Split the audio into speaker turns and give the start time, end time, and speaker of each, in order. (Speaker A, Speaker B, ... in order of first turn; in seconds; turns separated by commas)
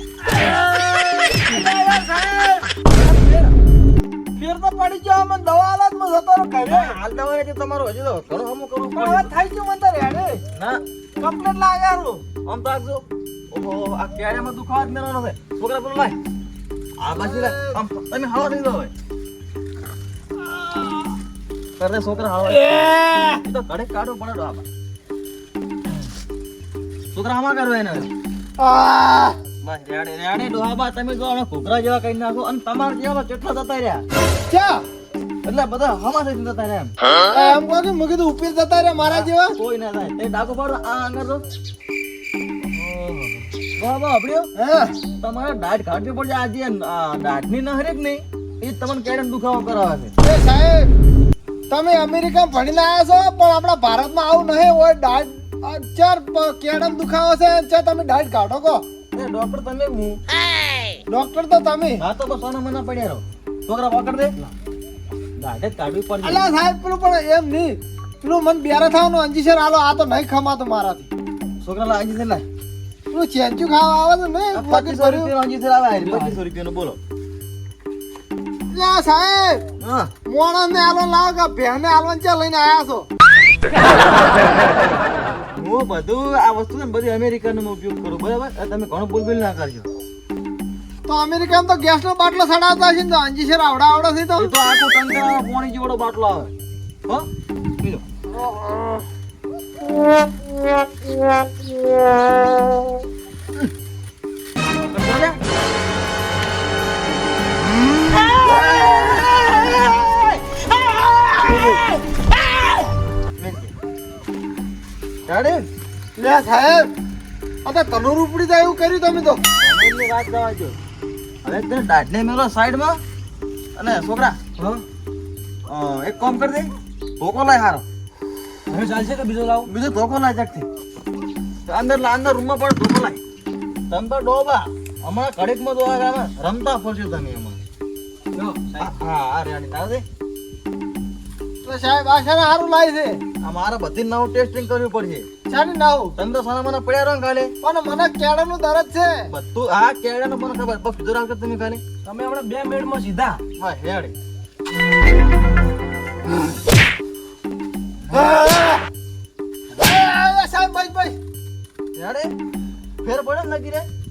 Speaker A: 0.3-2.7, Speaker B: 2.9-3.5, Speaker A: 4.3-7.0, Speaker B: 6.6-9.3, Speaker A: 8.9-10.4, Speaker B: 10.5-10.8, Speaker A: 11.2-12.2, Speaker B: 12.4-16.1, Speaker B: 17.0-18.9, Speaker A: 17.2-17.8, Speaker B: 21.8-24.6, Speaker A: 22.7-23.4, Speaker B: 27.1-28.1, Speaker A: 28.6-29.4, Speaker B: 29.6-34.0, Speaker A: 34.5-34.8, Speaker B: 35.4-36.9, Speaker A: 37.3-39.5, Speaker B: 39.0-41.4, Speaker B: 42.7-44.5, Speaker A: 44.5-44.9, Speaker B: 45.2-50.1, Speaker A: 50.2-50.9, Speaker A: 51.7-58.8, Speaker B: 59.1-60.2, Speaker A: 61.1-62.0, Speaker B: 62.0-64.3, Speaker B: 65.4-66.4, Speaker A: 66.2-71.1, Speaker B: 71.6-72.4, Speaker A: 73.1-75.3, Speaker B: 74.5-77.0, Speaker C: 76.0-76.4, Speaker A: 78.7-79.6, Speaker B: 79.8-80.1, Speaker A: 80.3-83.1, Speaker B: 85.5-89.9, Speaker A: 91.1-94.5, Speaker B: 94.3-96.5, Speaker B: 104.8-105.4, Speaker B: 108.4-110.4, Speaker B: 111.1-111.7, Speaker A: 111.5-111.8, Speaker B: 113.4-113.7, Speaker B: 115.3-115.7, Speaker A: 116.2-116.9, Speaker A: 117.6-119.4, Speaker B: 119.6-120.8, Speaker B: 121.4-123.0, Speaker B: 123.8-124.4, Speaker C: 124.6-124.8, Speaker B: 125.7-127.8, Speaker C: 128.7-129.7, Speaker B: 129.7-130.7, Speaker B: 131.7-133.2, Speaker B: 133.9-137.6, Speaker C: 138.3-138.8, Speaker B: 138.8-140.0, Speaker A: 141.6-143.2, Speaker B: 143.4-145.2, Speaker A: 145.5-146.1, Speaker B: 146.2-147.5, Speaker A: 147.6-149.3, Speaker B: 149.3-151.8, Speaker C: 152.0-153.4, Speaker B: 153.6-154.1, Speaker B: 158.1-158.4, Speaker A: 158.1-158.8, Speaker A: 159.7-161.2, Speaker B: 161.9-162.3, Speaker B: 163.0-163.9